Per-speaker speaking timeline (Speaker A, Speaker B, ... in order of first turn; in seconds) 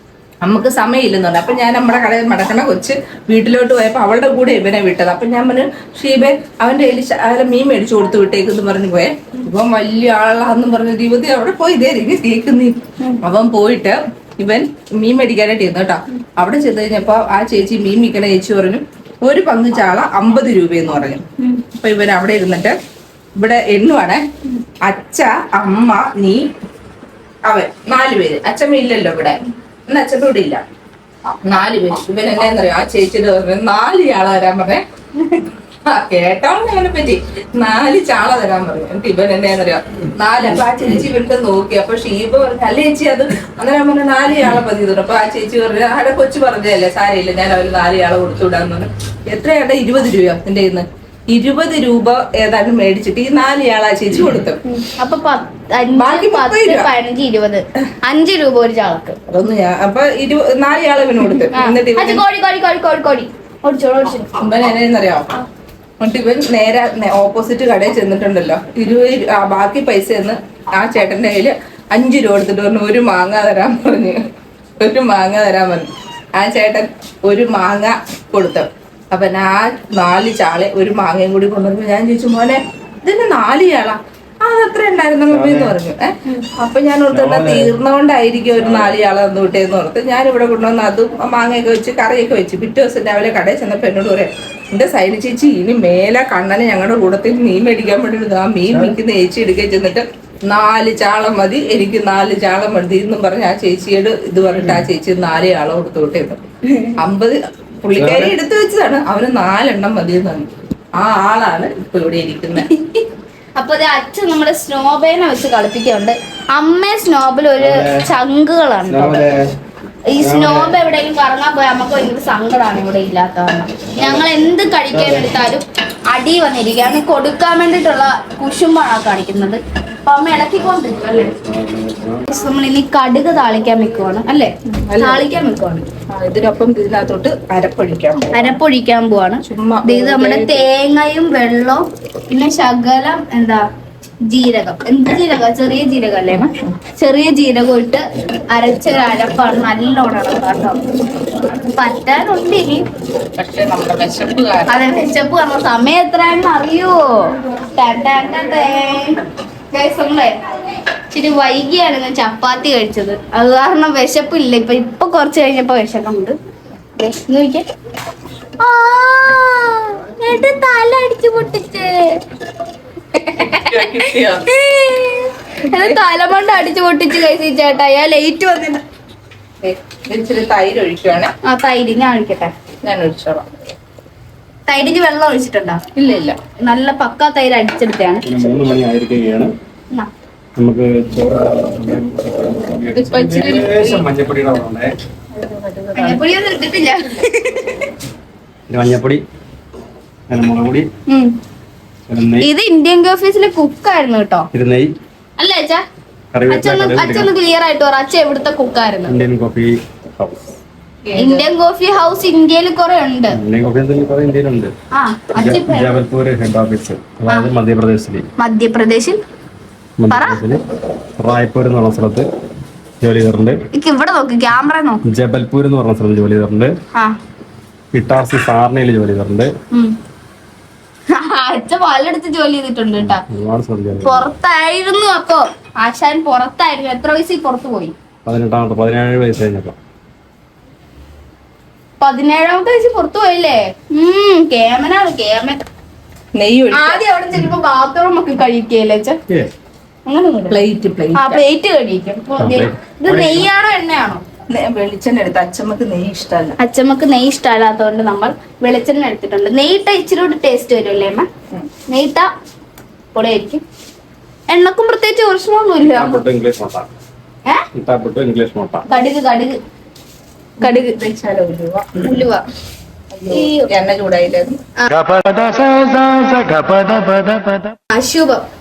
Speaker A: 0.4-22.8, 23.4-24.3, 24.8-26.5, 27.4-30.6, 31.4-34.8, 35.8-54.6, 55.9-56.9, 59.3-62.2, 64.4-65.3, 66.0-106.4, 107.0-112.7, 134.7-135.3, 136.1-138.6, 139.4-140.7, 153.4-155.1, 173.4-174.5, 175.7-176.0, 179.6-181.3, 182.8-183.5, 185.9-186.4, 192.9-194.1, 195.3-196.2, 211.0-211.5, 246.3-247.0, 250.5-251.4, 254.5-256.6, 270.6-272.1, 273.1-274.6
Speaker B: 54.6-59.2, 61.5-64.3, 112.7-113.0, 113.6-119.2, 120.1-131.3, 132.3-135.9, 138.3-143.7, 144.3-150.8, 151.7-152.8, 154.7-160.4, 161.1-166.3, 167.0-167.7, 168.6-172.2, 173.1-178.8, 181.4-182.5, 184.7-185.8, 186.6-188.2, 195.9-197.5, 201.1-201.3, 202.4-204.5, 205.4-205.8, 206.5-209.2, 211.2-213.4, 214.9-216.0, 218.4-219.2, 220.1-220.4, 223.7-225.0, 231.1-233.2, 234.0-237.9, 242.0-245.6, 246.7-249.2, 250.1-250.6, 251.1-254.2, 256.6-261.3, 261.9-262.3, 263.1-263.6, 264.5-266.2, 268.9-269.6, 270.6-271.0, 272.0-272.4, 273.3-273.7, 277.9-278.4
Speaker C: 85.3-85.8, 87.1-87.7, 88.6-88.9, 108.0-108.3, 117.6-118.0, 118.9-119.4, 120.2-120.7, 124.0-124.3, 124.9-125.3, 131.3-132.2, 188.2-189.5, 190.6-194.9, 198.7-199.2, 200.3-200.9, 202.1-202.5, 204.5-204.9, 206.3-207.3, 209.1-210.6, 213.4-214.7, 215.4-218.3, 220.0-220.6, 221.2-222.3, 223.0-223.6, 225.1-226.8, 227.9-229.5, 233.0-234.3, 238.2-239.8, 252.4-253.5, 265.8-266.9, 267.7-268.8, 275.0-277.6